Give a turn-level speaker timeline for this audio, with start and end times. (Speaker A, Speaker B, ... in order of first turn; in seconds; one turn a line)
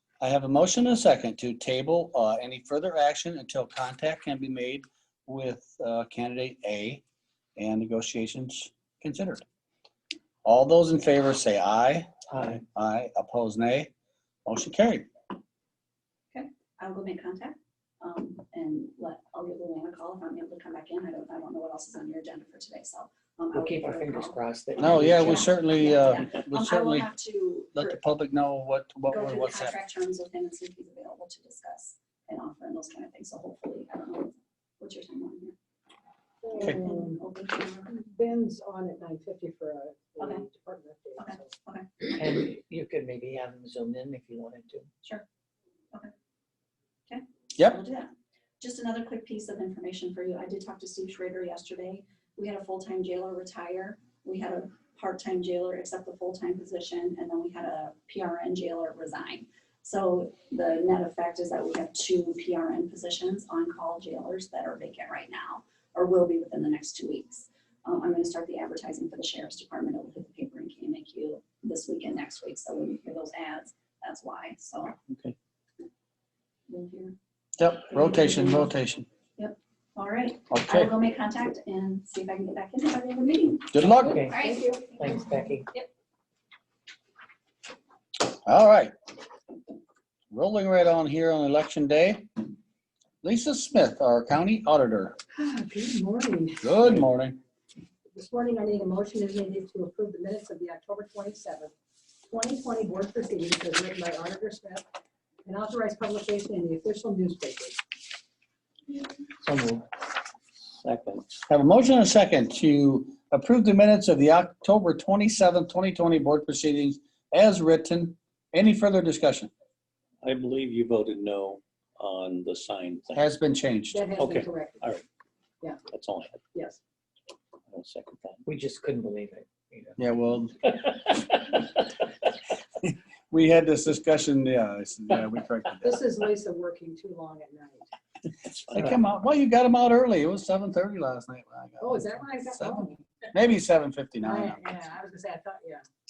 Speaker A: 0.2-7.0
Speaker A: 7.6-9.4
Speaker A: 10.4-12.1
Speaker B: 12.3-12.6
Speaker A: 12.7-13.9
Speaker A: 14.4-15.1
Speaker C: 16.3-28.0
Speaker B: 23.5-25.5
Speaker A: 24.8-27.1
Speaker A: 27.7-29.8
Speaker C: 29.1-35.5
Speaker D: 36.4-37.2
Speaker C: 36.5-37.9
Speaker D: 37.9-41.5
Speaker C: 41.2-42.1
Speaker B: 42.1-44.9
Speaker C: 47.1-75.0
Speaker E: 75.1-75.3
Speaker C: 76.7-77.1
Speaker A: 77.6-79.1
Speaker C: 77.9-78.7
Speaker C: 79.4-85.9
Speaker A: 80.5-80.9
Speaker A: 83.7-84.2
Speaker B: 83.9-85.7
Speaker A: 88.5-88.9
Speaker A: 90.3-92.3
Speaker A: 93.2-95.2
Speaker D: 95.3-96.7
Speaker A: 96.6-97.4
Speaker D: 98.1-101.7
Speaker D: 102.3-104.8
Speaker D: 105.4-107.8
Speaker B: 109.4-109.9
Speaker E: 110.8-111.3
Speaker A: 111.5-119.5
Speaker E: 120.2-123.2
Speaker A: 123.1-124.1
Speaker D: 123.9-124.8
Speaker E: 124.2-125.0
Speaker E: 125.9-126.4
Speaker D: 126.5-126.8
Speaker E: 127.7-128.4
Speaker B: 128.4-130.0
Speaker A: 130.0-130.5
Speaker A: 133.3-136.0
Speaker D: 135.8-137.9
Speaker A: 138.7-144.6
Speaker D: 141.8-143.0
Speaker D: 144.2-145.8